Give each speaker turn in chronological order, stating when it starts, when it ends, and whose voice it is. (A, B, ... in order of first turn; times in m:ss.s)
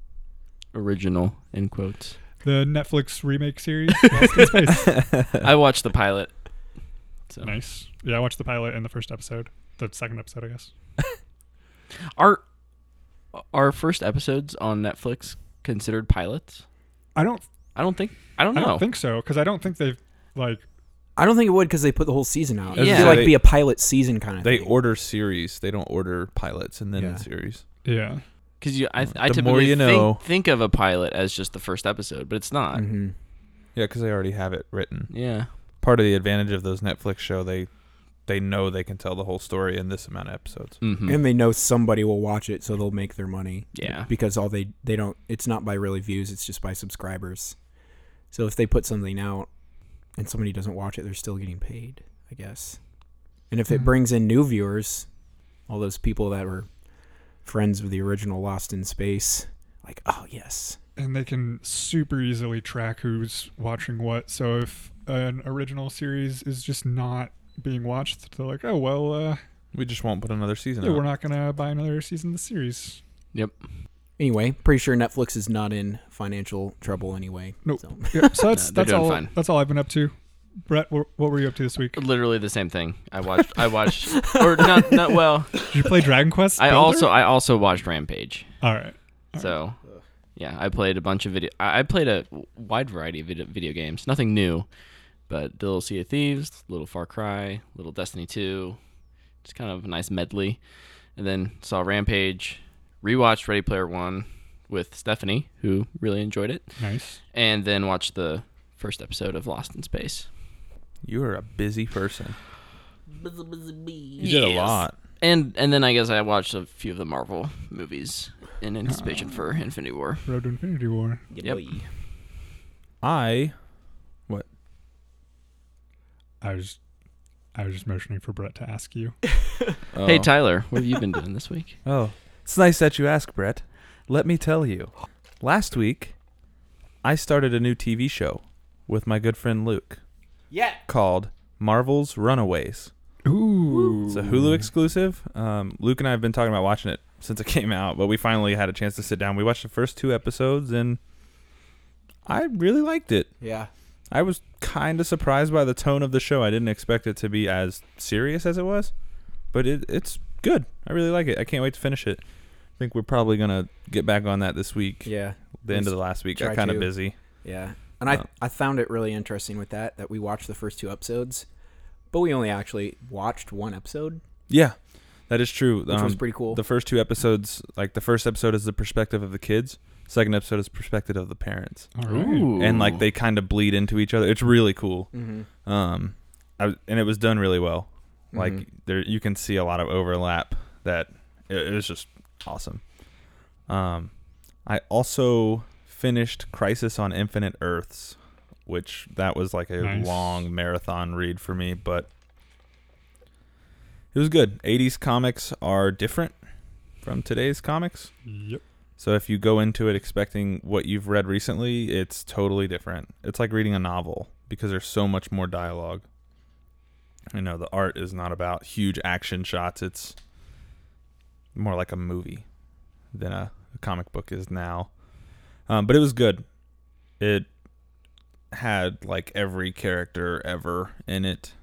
0:00.7-0:02.2 A
0:02.4-0:05.0 B
0:04.2-0:04.7 A
0:05.1-0:05.4 C
0:05.3-0:06.3 A
0:07.4-0:10.7 B
0:12.1-0:12.4 A
0:13.3-0:16.6 A
0:17.1-0:17.4 B
0:17.7-0:18.8 A
0:18.5-0:20.6 B
0:21.2-0:24.8 D
0:22.7-0:23.4 C
0:22.8-0:23.3 A
0:24.4-0:27.6 C
0:27.0-0:27.2 D
0:27.8-0:28.2 B
0:28.6-0:32.8 A
0:29.2-0:30.2 C
0:32.7-0:33.1 D
0:33.7-0:35.1 C
0:35.1-0:35.5 A
0:35.8-0:37.7 C
0:38.2-0:40.8 C
0:40.8-0:41.2 A
0:41.0-0:47.6 D
0:43.7-0:44.1 A
0:48.3-0:49.5 D
0:50.2-0:52.8 D
0:53.5-0:55.1 D
0:55.7-0:56.7 D
0:57.4-1:00.8 D
1:01.0-1:09.4 B
1:09.7-1:11.0 C
1:10.8-1:13.0 B
1:14.2-1:18.5 D
1:17.6-1:20.1 B
1:18.5-1:19.3 A
1:20.6-1:22.0 B
1:21.9-1:25.7 A
1:24.1-1:25.2 D
1:25.7-1:27.1 B
1:26.6-1:28.4 A
1:28.6-1:29.5 B
1:29.4-1:29.8 A
1:30.4-1:34.6 A
1:35.3-1:38.8 A
1:39.4-1:40.6 A
1:41.2-1:46.7 A
1:46.8-1:47.2 B
1:47.3-1:50.3 A
1:51.0-1:52.4 C
1:53.2-1:54.2 D
1:54.2-1:54.9 C
1:54.2-2:00.2 A
1:58.8-1:59.4 B
2:00.2-2:01.2 B
2:01.3-2:01.9 D
2:03.0-2:03.5 C
2:06.4-2:06.8 B
2:07.5-2:09.2 B
2:09.9-2:10.3 C
2:10.0-2:11.8 A
2:11.8-2:16.1 C
2:17.0-2:20.0 C
2:20.5-2:20.8 D
2:20.9-2:22.9 C
2:23.2-2:24.3 B
2:23.7-2:24.2 D
2:24.1-2:31.0 C
2:32.2-2:33.3 C
2:33.4-2:33.7 D
2:34.1-2:38.9 C
2:39.5-2:42.2 C
2:42.8-2:47.1 C
2:45.0-2:46.9 D
2:47.4-2:51.4 D
2:52.1-2:54.2 D
2:54.5-2:54.8 C
2:55.3-3:01.9 C
2:55.9-2:56.6 D
3:01.9-3:02.5 B
3:02.1-3:03.0 A
3:02.5-3:05.1 C
3:05.1-3:05.5 D
3:05.6-3:12.8 C
3:08.3-3:08.6 D
3:13.7-3:14.1 C
3:14.6-3:22.1 C
3:19.8-3:20.4 B
3:24.1-3:26.3 C
3:27.0-3:28.1 C
3:28.2-3:28.6 B
3:29.0-3:36.0 C
3:37.3-3:40.2 C
3:41.5-3:42.4 C
3:43.1-3:44.9 C
3:45.7-3:46.4 C
3:47.2-3:47.5 C
3:48.5-3:51.5 C